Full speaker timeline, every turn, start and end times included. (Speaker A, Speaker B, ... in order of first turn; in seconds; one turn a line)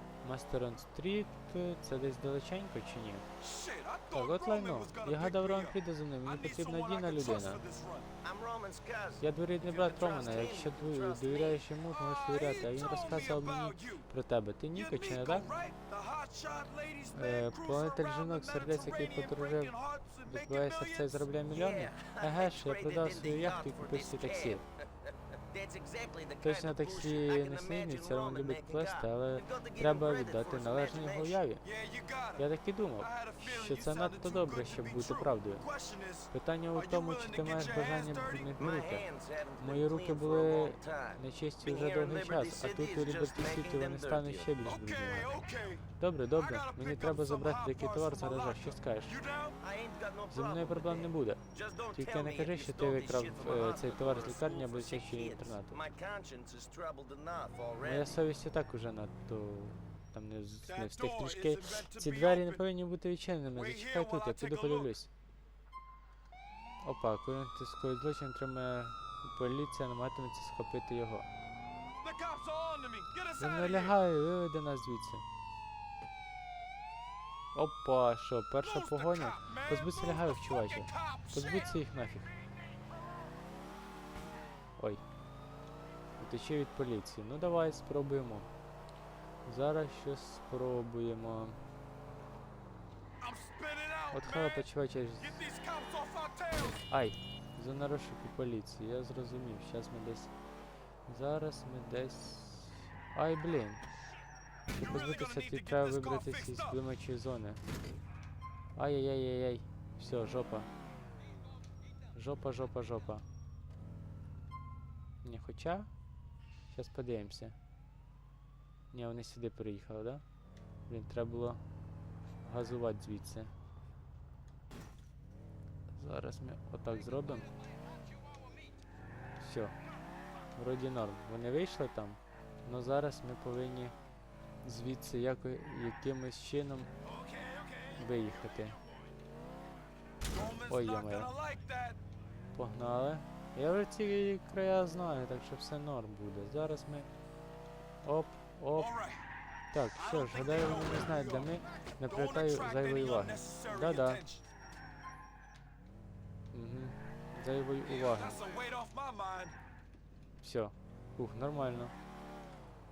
Speaker A: 0.2-3.3
Speaker B: 3.4-8.1
Speaker A: 4.1-7.6
Speaker C: 8.2-11.7
Speaker A: 9.2-15.5
Speaker B: 11.9-14.1
Speaker B: 14.7-21.3
Speaker A: 17.1-19.7
Speaker A: 20.2-24.6
Speaker C: 21.5-31.4
Speaker A: 26.4-31.6
Speaker B: 31.6-32.5
Speaker A: 32.4-35.7
Speaker B: 33.0-38.5
Speaker A: 36.3-39.1
Speaker C: 38.6-44.5
Speaker A: 39.6-49.2
Speaker B: 44.6-49.6
Speaker C: 49.6-58.2
Speaker A: 50.3-55.8
Speaker A: 57.8-65.1
Speaker B: 60.6-62.6
Speaker B: 63.5-64.9
Speaker A: 66.8-71.3
Speaker B: 72.0-74.0
Speaker A: 73.4-75.2
Speaker A: 77.5-82.3
Speaker B: 78.6-82.6
Speaker A: 86.2-88.5
Speaker A: 89.5-91.6
Speaker B: 93.2-94.7
Speaker A: 94.1-95.4
Speaker B: 95.2-96.9
Speaker A: 96.9-100.3
Speaker A: 101.1-103.8
Speaker B: 104.7-106.8
Speaker A: 104.8-107.6
Speaker A: 108.8-110.7
Speaker A: 112.1-113.2
Speaker A: 115.2-115.9
Speaker A: 116.7-117.6
Speaker A: 118.9-120.2
Speaker A: 120.9-121.6
Speaker A: 122.4-123.5
Speaker A: 125.9-127.5
Speaker A: 129.4-129.8
Speaker A: 130.6-133.9
Speaker A: 134.6-136.9
Speaker B: 137.0-139.1
Speaker A: 138.0-138.8
Speaker B: 140.2-142.0
Speaker A: 140.7-141.3
Speaker A: 142.6-147.1
Speaker A: 148.0-148.9
Speaker B: 148.8-149.2
Speaker A: 149.7-154.2
Speaker B: 149.9-154.4
Speaker A: 156.5-158.4
Speaker B: 157.8-159.6
Speaker A: 160.4-161.9